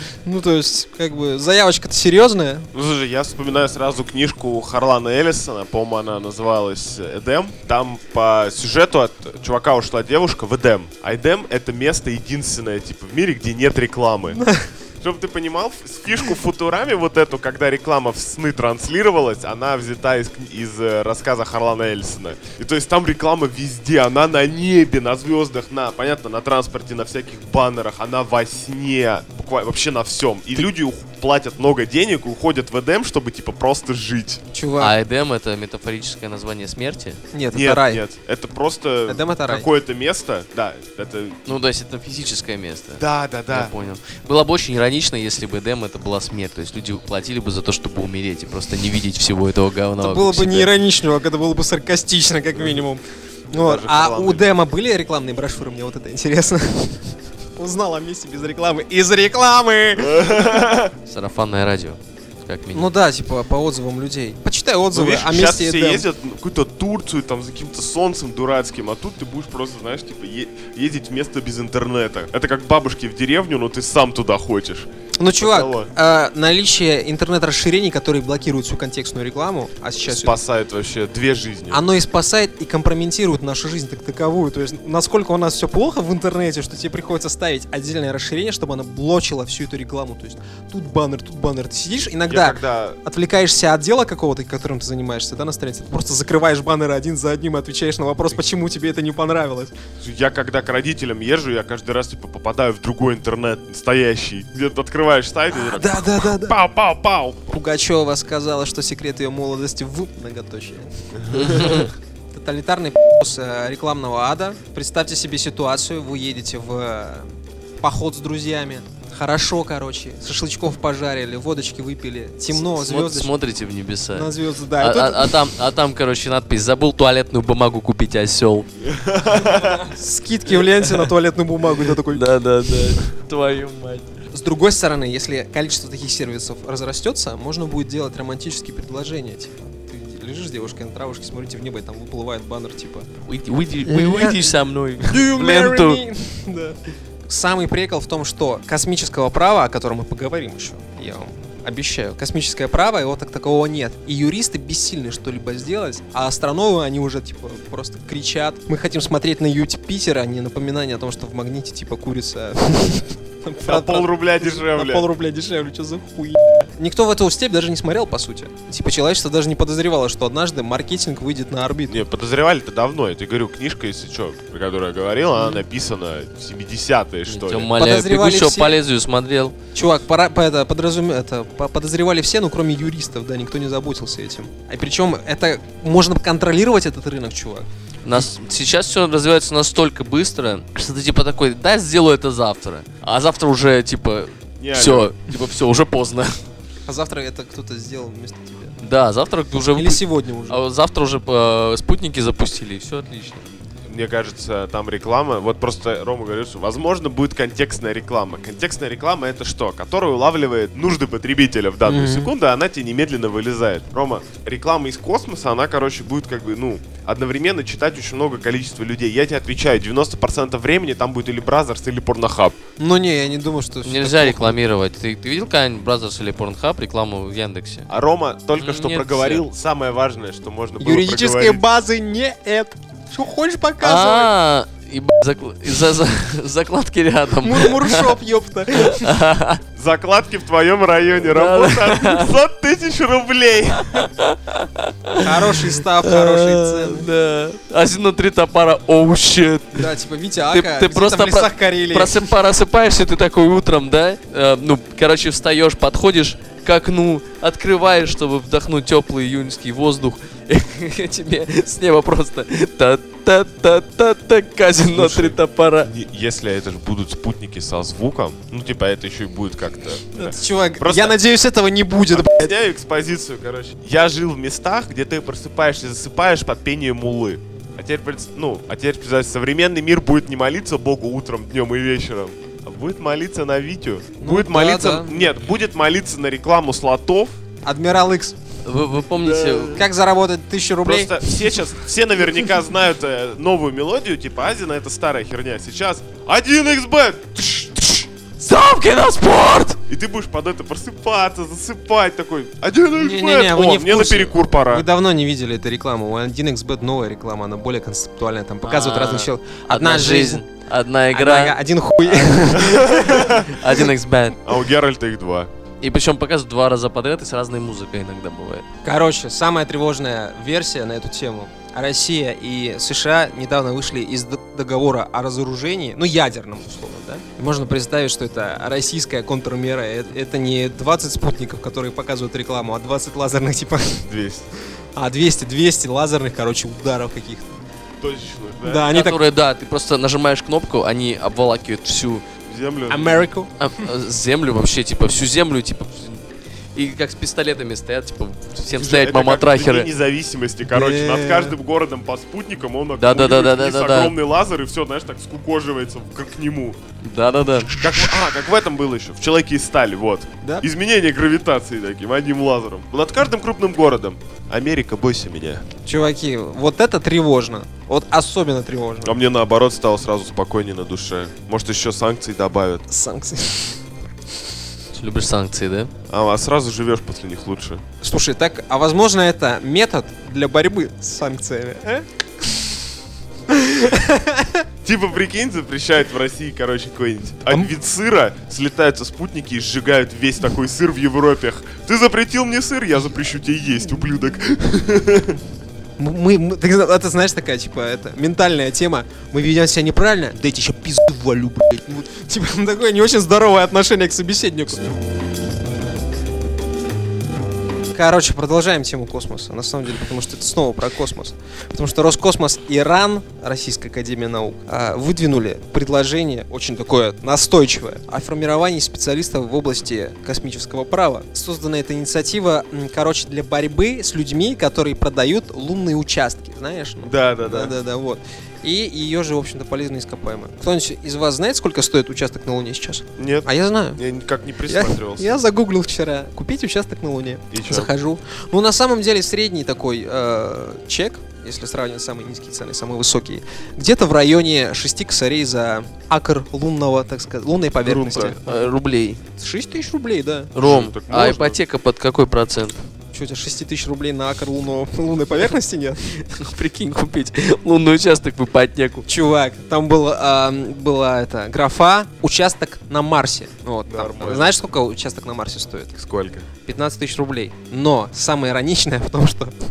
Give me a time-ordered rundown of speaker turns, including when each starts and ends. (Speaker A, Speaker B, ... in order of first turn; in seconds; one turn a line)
Speaker A: 0.2-2.7
Speaker B: 2.7-14.4
Speaker A: 14.4-14.6
Speaker B: 15.0-34.4
Speaker A: 34.5-34.9
Speaker C: 34.8-37.2
Speaker A: 37.3-38.0
Speaker B: 37.5-41.4
Speaker A: 39.1-39.7
Speaker C: 41.5-50.7
Speaker B: 43.0-43.7
Speaker A: 50.0-53.0
Speaker A: 53.5-60.4
Speaker B: 53.6-54.5
Speaker B: 60.0-60.9
Speaker C: 61.1-62.9
Speaker A: 62.7-66.0
Speaker B: 64.9-74.9
Speaker A: 75.2-80.4
Speaker B: 75.4-75.9
Speaker B: 80.1-81.8
Speaker A: 81.7-99.7
Speaker B: 92.3-93.0
Speaker B: 100.0-107.5
Speaker A: 105.5-106.6
Speaker A: 107.5-123.3
Speaker B: 111.2-111.8
Speaker C: 111.3-111.9
Speaker C: 122.5-128.7
Speaker A: 124.1-125.4
Speaker B: 128.8-129.8
Speaker C: 129.4-129.9
Speaker A: 129.9-132.2
Speaker C: 130.6-131.1
Speaker C: 132.1-134.1
Speaker A: 134.3-143.1
Speaker C: 143.2-146.0
Speaker A: 143.8-172.0
Speaker B: 163.6-165.1
Speaker B: 171.9-177.7
Speaker C: 177.3-179.6
Speaker A: 177.8-178.8
Speaker A: 179.7-187.7
Speaker C: 188.0-196.4
Speaker B: 194.6-195.1
Speaker A: 196.9-198.8
Speaker C: 198.8-203.4
Speaker A: 199.7-200.6
Speaker B: 203.8-222.6
Speaker A: 211.8-212.3
Speaker A: 222.8-224.5
Speaker C: 223.8-227.9
Speaker B: 227.9-231.6
Speaker C: 228.5-229.4
Speaker A: 230.8-234.3
Speaker C: 233.8-238.1
Speaker A: 237.4-239.2
Speaker C: 238.8-239.6
Speaker B: 239.8-244.1
Speaker C: 241.3-242.4
Speaker C: 243.9-249.9
Speaker A: 245.2-247.1
Speaker A: 249.7-252.3
Speaker C: 250.5-265.9
Speaker B: 264.9-271.1
Speaker A: 270.1-272.5
Speaker B: 272.1-287.4
Speaker A: 284.2-285.2
Speaker A: 287.6-288.4
Speaker C: 288.6-289.8
Speaker B: 289.2-289.8
Speaker A: 289.7-291.4
Speaker B: 290.8-298.1
Speaker C: 298.4-299.8
Speaker B: 299.9-304.9
Speaker A: 302.9-310.4
Speaker C: 308.6-311.6
Speaker A: 311.1-313.5
Speaker C: 312.1-314.4
Speaker B: 312.7-313.5
Speaker B: 314.4-315.5
Speaker C: 315.8-318.6
Speaker A: 318.8-334.1
Speaker B: 334.1-334.5
Speaker A: 334.9-337.6
Speaker B: 338.0-338.9
Speaker A: 338.6-339.2
Speaker C: 338.9-342.2
Speaker B: 342.5-343.2
Speaker A: 342.9-343.9
Speaker C: 343.6-346.2
Speaker C: 346.7-349.9
Speaker B: 348.8-356.8
Speaker A: 350.7-351.6
Speaker C: 353.0-354.1
Speaker C: 357.0-357.7
Speaker B: 357.8-365.6
Speaker A: 365.9-369.1
Speaker B: 369.0-372.8
Speaker A: 372.9-373.8
Speaker C: 374.9-375.9
Speaker B: 376.1-377.8
Speaker A: 378.0-382.5
Speaker A: 383.5-384.6
Speaker B: 384.8-395.4
Speaker A: 396.0-405.0
Speaker A: 407.9-434.0
Speaker B: 427.0-427.7
Speaker B: 433.2-435.4
Speaker A: 434.7-448.6
Speaker B: 437.5-437.9
Speaker B: 447.8-448.4
Speaker C: 448.4-449.2
Speaker A: 449.4-450.5
Speaker C: 450.5-452.8
Speaker B: 450.6-451.6
Speaker A: 453.1-456.1
Speaker C: 456.2-459.1
Speaker A: 459.1-466.0
Speaker B: 463.9-464.5
Speaker B: 466.0-466.5
Speaker A: 466.6-469.5